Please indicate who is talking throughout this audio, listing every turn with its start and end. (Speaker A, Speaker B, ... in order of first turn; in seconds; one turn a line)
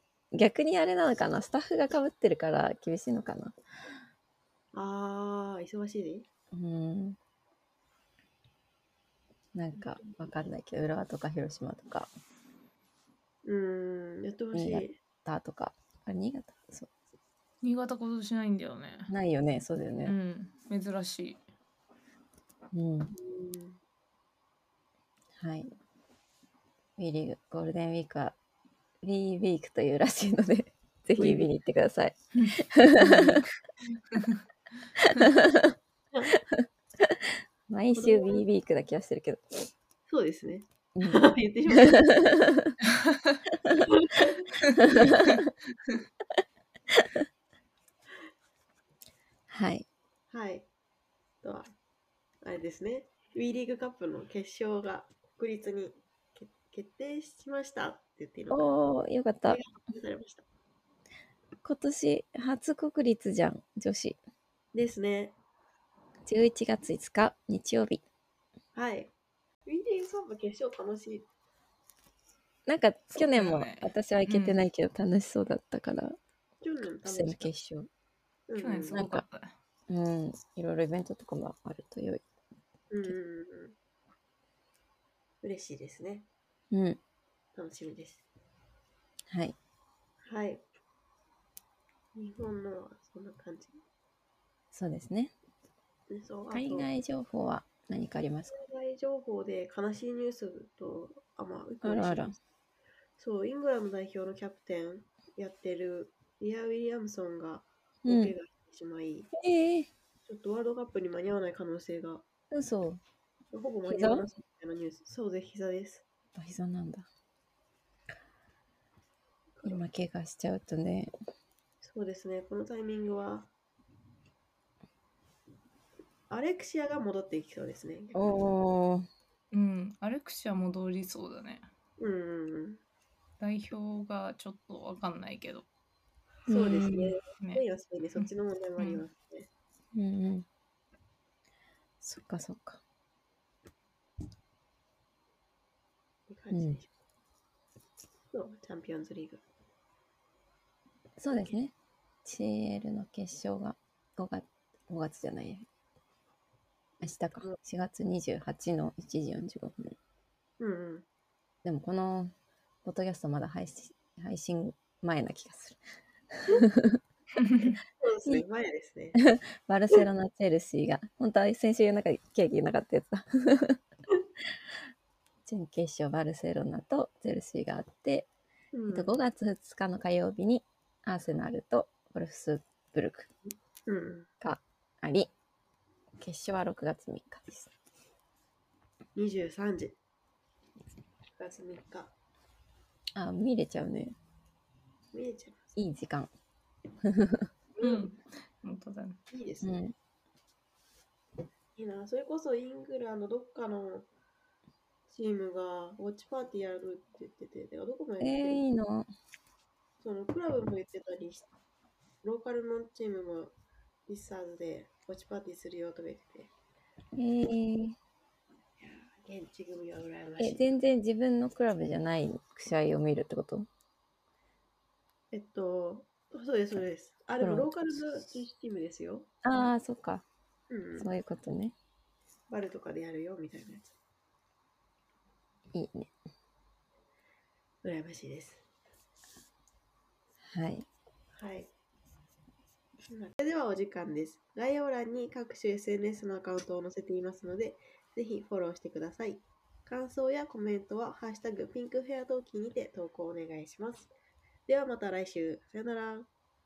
Speaker A: 0.3-3.5
Speaker B: 4.7-6.3
Speaker A: 6.5-7.2
Speaker A: 9.6-12.1
Speaker B: 9.8-10.1
Speaker B: 13.4-15.0
Speaker A: 14.5-16.9
Speaker C: 17.6-19.1
Speaker A: 19.1-20.1
Speaker C: 20.0-21.4
Speaker A: 22.7-23.1
Speaker B: 23.1-23.8
Speaker A: 25.4-25.7
Speaker A: 27.0-28.4
Speaker A: 29.0-32.2
Speaker B: 31.2-31.5
Speaker C: 32.4-33.5
Speaker A: 32.7-33.4
Speaker C: 34.1-34.4
Speaker A: 37.7-39.6
Speaker B: 38.0-38.5
Speaker B: 40.1-42.1
Speaker A: 41.0-41.3
Speaker A: 41.9-42.8
Speaker C: 43.0-43.3
Speaker B: 43.9-45.3
Speaker A: 49.5-49.9
Speaker B: 50.3-50.7
Speaker B: 51.4-51.7
Speaker B: 52.4-58.7
Speaker A: 58.5-59.6
Speaker B: 59.5-60.4
Speaker A: 61.6-64.2
Speaker B: 64.7-65.4
Speaker A: 66.3-68.0
Speaker B: 68.8-69.1
Speaker B: 69.7-71.3
Speaker A: 72.7-76.2
Speaker C: 73.1-74.6
Speaker B: 76.6-77.5
Speaker A: 77.0-77.9
Speaker B: 78.5-79.0
Speaker C: 78.6-79.5
Speaker A: 78.9-79.2
Speaker A: 79.9-82.2
Speaker B: 82.9-83.8
Speaker B: 85.4-86.3
Speaker A: 86.7-87.0
Speaker B: 87.5-88.2
Speaker A: 89.3-89.6
Speaker B: 90.2-90.6
Speaker B: 92.2-93.8
Speaker A: 94.7-95.3
Speaker B: 96.1-96.9
Speaker A: 96.5-98.5
Speaker B: 98.5-102.4
Speaker A: 101.8-102.3
Speaker B: 103.2-109.3
Speaker A: 108.0-108.3
Speaker A: 109.4-109.9
Speaker B: 110.3-112.2
Speaker A: 112.5-113.0
Speaker B: 113.5-116.0
Speaker A: 113.9-114.2
Speaker A: 116.3-117.1
Speaker B: 119.6-119.8
Speaker A: 119.7-121.1
Speaker B: 121.8-123.5
Speaker B: 126.3-128.4
Speaker A: 128.1-129.1
Speaker C: 129.5-131.7
Speaker B: 132.0-132.8
Speaker C: 133.4-135.7
Speaker A: 136.5-137.2
Speaker B: 136.5-139.5
Speaker C: 138.2-139.0
Speaker A: 139.9-140.5
Speaker A: 142.0-142.8
Speaker B: 146.3-146.9
Speaker A: 146.5-146.8
Speaker B: 148.3-149.4
Speaker A: 151.2-151.7
Speaker A: 152.2-155.7
Speaker A: 157.0-160.0
Speaker B: 160.6-161.1
Speaker A: 161.6-162.3
Speaker A: 162.8-165.8
Speaker A: 166.3-167.0
Speaker C: 167.4-167.8
Speaker B: 167.6-169.2
Speaker A: 169.2-173.8
Speaker A: 175.5-178.3
Speaker B: 178.7-179.2
Speaker A: 178.9-183.3
Speaker B: 183.9-184.3
Speaker A: 184.4-185.3
Speaker A: 186.2-187.7
Speaker B: 189.2-190.0
Speaker B: 191.4-192.1
Speaker A: 193.2-194.2
Speaker B: 195.1-195.6
Speaker A: 195.8-196.3
Speaker A: 197.1-197.5
Speaker B: 197.8-198.1
Speaker C: 197.8-199.2
Speaker B: 199.3-199.8
Speaker A: 199.6-199.9
Speaker B: 201.8-204.1
Speaker B: 205.1-208.7
Speaker A: 208.2-209.1
Speaker B: 210.0-211.5
Speaker B: 212.2-213.6
Speaker B: 214.1-216.5
Speaker A: 217.2-218.0
Speaker B: 218.8-220.7
Speaker A: 220.4-223.7
Speaker B: 225.3-229.3
Speaker A: 227.4-227.8
Speaker A: 229.4-230.3
Speaker B: 230.7-231.1
Speaker A: 231.0-231.8
Speaker B: 232.5-233.9
Speaker A: 235.7-236.1
Speaker B: 237.8-238.6
Speaker A: 240.5-240.9
Speaker B: 241.3-241.7
Speaker B: 243.1-254.1
Speaker B: 254.7-256.3